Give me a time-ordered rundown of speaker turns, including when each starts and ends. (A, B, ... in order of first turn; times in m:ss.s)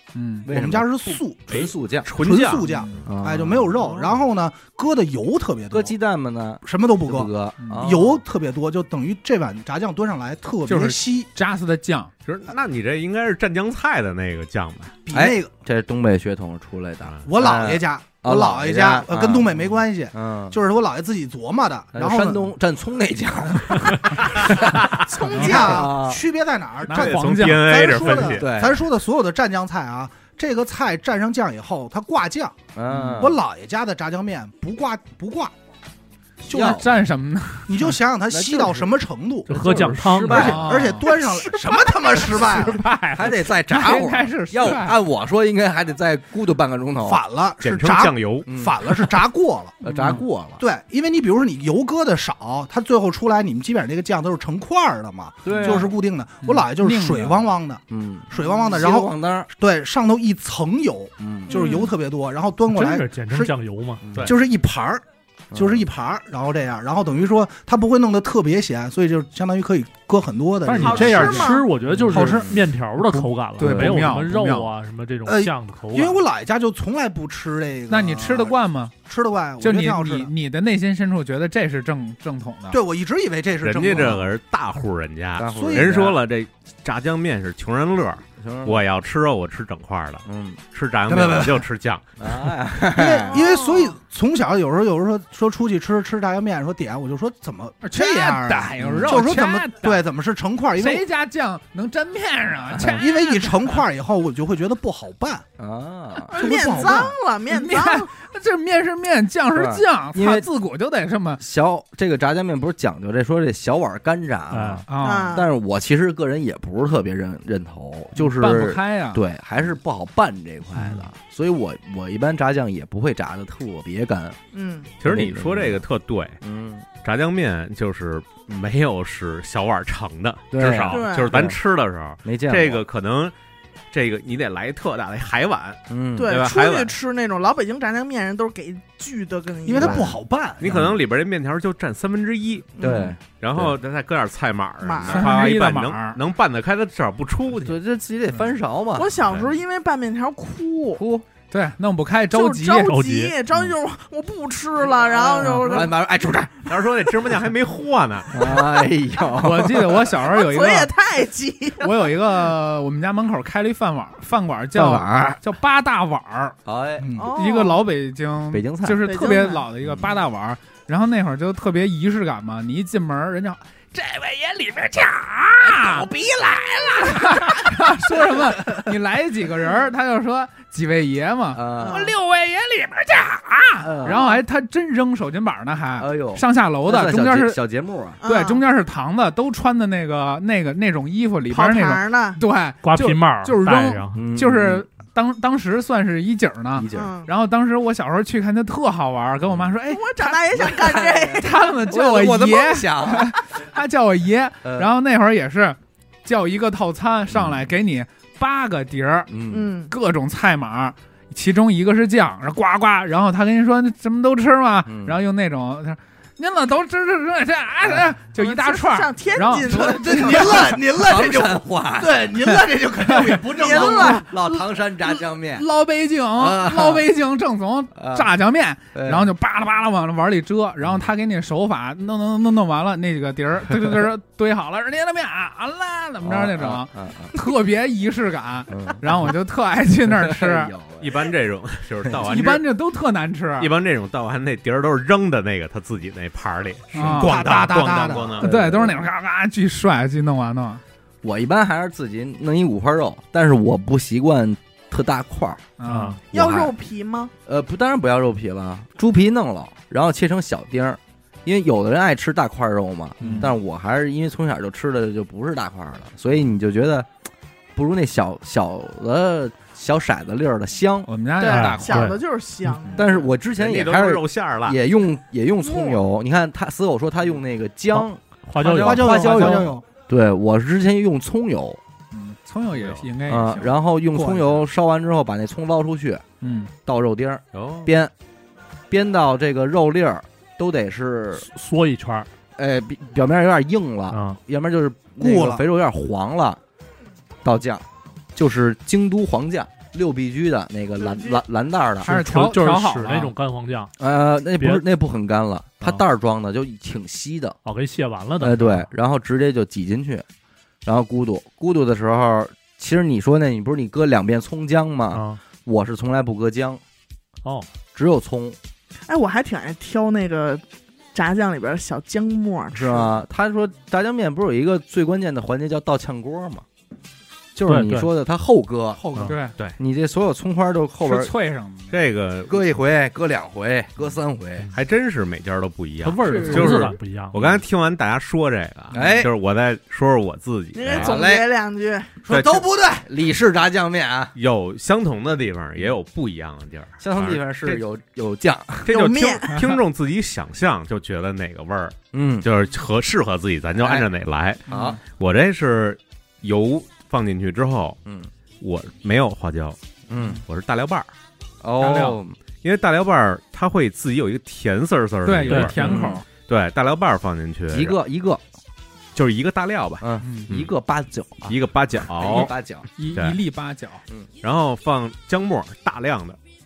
0:00.2-0:00.5 A
0:00.4-0:02.1 B
0:00.4-0:06.0 C
0:01.5-0:03.0 D
0:02.6-0:03.1 A
0:03.0-0:03.9 B
0:05.7-0:08.2 B
0:06.6-0:11.3 C
0:07.6-0:08.0 A
0:10.7-0:12.1 A
0:12.3-0:15.0 D
0:15.1-0:15.5 C
0:15.1-0:20.6 B
0:17.3-0:22.5 C
0:21.9-0:24.8 B
0:24.2-0:25.1 D
0:25.1-0:25.9 E
0:25.2-0:32.6 C
0:25.4-0:25.7 A
0:25.4-0:26.2 B
0:26.9-0:28.2 A
0:26.9-0:28.5 D
0:28.3-0:28.9 B
0:32.8-0:33.4 B
0:32.9-0:33.2 A
0:33.1-0:35.5 C
0:36.5-0:36.8 C
0:36.5-0:36.9 B
0:36.5-0:37.9 A
0:37.7-0:42.8 C
0:38.3-0:38.9 B
0:39.5-0:40.7 F
0:39.5-0:41.0 B
0:39.6-0:41.2 A
0:42.2-0:45.0 A
0:43.1-0:47.2 B
0:47.0-0:49.8 C
0:47.6-0:48.5 D
0:48.5-0:49.1 B
0:49.8-0:50.2 A
0:49.8-0:50.6 B
0:50.6-1:03.5 C
0:55.4-0:55.9 B
0:55.5-0:57.5 A
0:57.9-0:59.5 B
1:01.2-1:01.8 B
1:01.5-1:01.9 E
1:02.7-1:04.0 F
1:04.0-1:04.3 B
1:04.2-1:11.6 C
1:05.5-1:05.9 B
1:10.7-1:11.4 A
1:10.7-1:16.2 F
1:10.8-1:11.7 E
1:11.9-1:12.6 B
1:12.1-1:12.6 C
1:13.0-1:14.7 A
1:13.6-1:14.0 B
1:15.3-1:20.3 C
1:17.9-1:19.0 A
1:19.6-1:22.8 A
1:22.7-1:24.3 C
1:23.6-1:32.3 D
1:25.4-1:26.2 B
1:25.6-1:26.0 C
1:28.4-1:28.8 B
1:30.2-1:30.6 B
1:31.1-1:31.7 C
1:32.2-1:33.5 B
1:32.9-1:41.0 C
1:33.2-1:34.0 E
1:37.8-1:40.0 A
1:38.8-1:39.2 B
1:40.8-1:43.5 A
1:42.7-1:43.0 B
1:43.0-1:45.5 C
1:45.6-1:47.0 B
1:46.3-1:48.1 E
1:46.3-1:47.2 C
1:47.5-1:51.4 A
1:49.5-1:50.5 B
1:51.4-2:04.4 B
1:54.5-1:54.8 F
1:54.9-1:55.4 A
1:55.0-1:55.5 E
1:58.2-1:59.2 A
2:00.8-2:01.0 A
2:04.5-2:04.9 E
2:05.0-2:06.4 D
2:05.0-2:05.8 B
2:06.4-2:06.9 B
2:07.0-2:13.3 D
2:10.5-2:11.6 B
2:10.9-2:11.3 E
2:12.2-2:12.8 B
2:13.9-2:17.0 D
2:15.9-2:16.3 B
2:16.2-2:20.2 E
2:19.6-2:20.8 C
2:19.8-2:21.0 B
2:20.6-2:22.8 D
2:22.8-2:23.2 E
2:22.8-2:23.7 B
2:23.3-2:27.8 D
2:24.8-2:25.3 E
2:25.1-2:26.2 A
2:27.6-2:29.1 B
2:29.0-2:31.0 E
2:29.3-2:29.5 D
2:31.0-2:31.3 B
2:31.5-2:33.0 A
2:32.3-2:36.0 E
2:32.8-2:33.3 F
2:34.9-2:36.7 B
2:35.4-2:35.8 A
2:36.7-2:38.6 D
2:38.3-2:40.2 B
2:39.3-2:40.9 A
2:40.2-2:42.1 E
2:41.8-2:46.6 A
2:44.7-2:45.4 B
2:46.6-2:47.1 B
2:47.0-2:47.3 C
2:47.2-2:47.9 E
2:47.3-2:56.1 A
2:48.5-2:49.1 B
2:49.0-2:49.7 E
2:49.8-2:50.2 B
2:55.6-2:57.2 B
2:57.0-3:07.6 A
3:01.5-3:02.1 B
3:01.8-3:02.2 E
3:03.8-3:04.2 B
3:04.0-3:04.4 E
3:06.0-3:08.2 B
3:08.2-3:08.6 E
3:08.3-3:20.6 A
3:11.5-3:12.4 E
3:12.8-3:14.2 F
3:14.2-3:14.9 B
3:16.8-3:17.1 B
3:16.9-3:17.3 E
3:19.9-3:21.8 E
3:20.6-3:23.4 B
3:21.4-3:29.4 A
3:24.6-3:24.9 B
3:27.3-3:27.6 B
3:29.3-3:29.7 B
3:29.5-3:29.9 E
3:29.9-3:40.4 A
3:34.9-3:35.2 B
3:38.4-3:40.7 E
3:39.7-3:44.2 C
3:40.2-3:42.3 B
3:43.1-3:43.4 A
3:43.5-3:44.4 E
3:43.6-3:45.7 B
3:45.5-4:00.7 A
3:46.4-3:47.1 B
3:48.0-3:48.3 B
3:48.9-3:49.3 B
3:56.2-3:57.4 B
3:58.7-3:59.3 B
4:00.1-4:01.3 B
4:01.0-4:02.6 D
4:02.2-4:03.7 A
4:03.6-4:08.5 D
4:06.9-4:07.4 A
4:07.0-4:08.4 C
4:08.4-4:09.0 B
4:08.4-4:10.8 A
4:11.2-4:15.7 B
4:15.8-4:16.2 A
4:15.8-4:16.2 F
4:16.3-4:17.3 E
4:16.3-4:16.7 B
4:17.5-4:27.1 B
4:23.2-4:23.5 A
4:27.8-4:31.1 B
4:31.1-4:32.2 A
4:31.4-4:33.3 E
4:31.5-4:32.2 F
4:33.0-4:41.8 B
4:33.6-4:34.8 D
4:35.6-4:36.0 E
4:38.5-4:39.5 F
4:38.6-4:39.8 C
4:39.0-4:39.6 A
4:42.1-4:43.7 A
4:42.7-4:43.0 D
4:43.3-4:46.3 B
4:44.1-4:44.6 C
4:46.4-4:46.7 A
4:46.9-4:48.1 B
4:47.5-4:47.9 D
4:48.9-4:51.5 B
4:51.4-4:52.3 F
4:52.6-4:56.6 B
4:54.1-4:54.4 F
4:55.2-4:55.6 C
4:57.4-5:02.1 B
5:02.0-5:03.3 A
5:02.0-5:03.9 F
5:04.0-5:07.6 B
5:04.6-5:04.8 F
5:07.6-5:08.9 F
5:08.4-5:10.3 B
5:10.8-5:16.8 B
5:15.1-5:15.4 F
5:18.0-5:18.6 B
5:19.1-5:23.1 E
5:22.7-5:26.6 B
5:27.6-5:29.0 B
5:27.7-5:28.1 F
5:29.0-5:29.3 C
5:29.2-5:29.6 A
5:29.8-5:31.3 B
5:31.0-5:32.0 A
5:31.9-5:32.6 D
5:32.5-5:34.7 B
5:34.7-5:41.2 D
5:36.0-5:37.6 F
5:36.2-5:36.9 A
5:38.9-5:39.3 B
5:40.7-5:42.1 E
5:40.9-5:41.4 B
5:42.2-5:43.1 C
5:42.3-5:42.7 D
5:43.0-5:44.3 B
5:44.4-5:47.8 D
5:47.0-5:49.0 B
5:48.9-5:49.7 E
5:48.9-5:54.6 D
5:52.1-5:52.5 B
5:53.8-5:54.1 B
5:54.7-5:55.0 B
5:54.7-5:55.0 A
5:55.2-5:58.0 D
5:58.0-5:58.3 B
5:58.6-5:59.8 D
6:00.1-6:00.4 B
6:00.4-6:01.1 D
6:01.6-6:02.4 B
6:01.8-6:02.2 A
6:02.6-6:05.9 D
6:05.2-6:06.2 A
6:05.5-6:06.0 F
6:05.8-6:06.2 B
6:06.5-6:08.0 D
6:07.7-6:08.4 B
6:09.2-6:10.7 D
6:10.0-6:12.9 B
6:10.2-6:10.5 A
6:11.5-6:12.5 D
6:13.0-6:14.0 A
6:14.4-6:16.4 D